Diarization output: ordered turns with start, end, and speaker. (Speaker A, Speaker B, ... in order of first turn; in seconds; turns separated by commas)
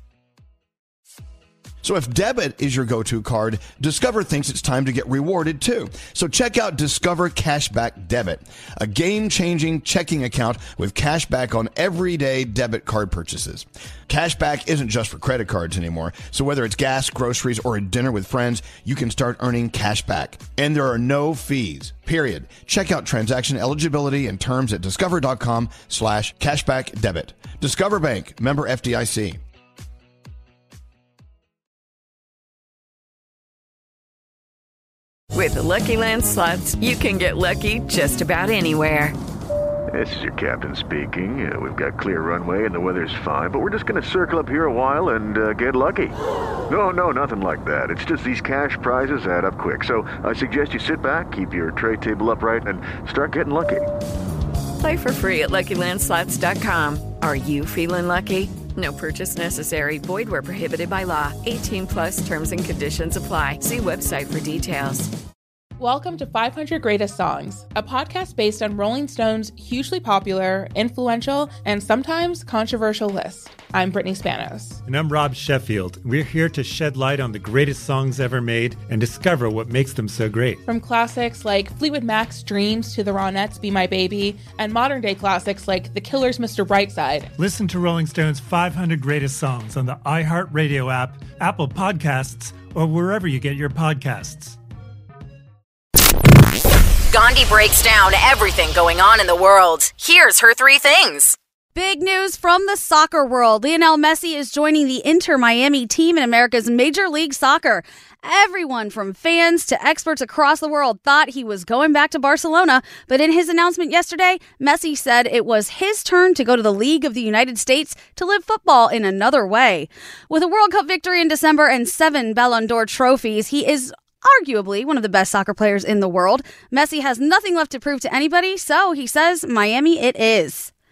Speaker A: 1.8-29.4, Speaker B: 35.3-39.1, Speaker C: 39.9-46.1, Speaker C: 46.7-53.9, Speaker B: 54.8-65.1, Speaker D: 65.8-74.8, Speaker E: 74.8-80.6, Speaker D: 80.7-87.3, Speaker E: 87.4-94.6, Speaker F: 97.1-101.3, Speaker G: 101.7-130.7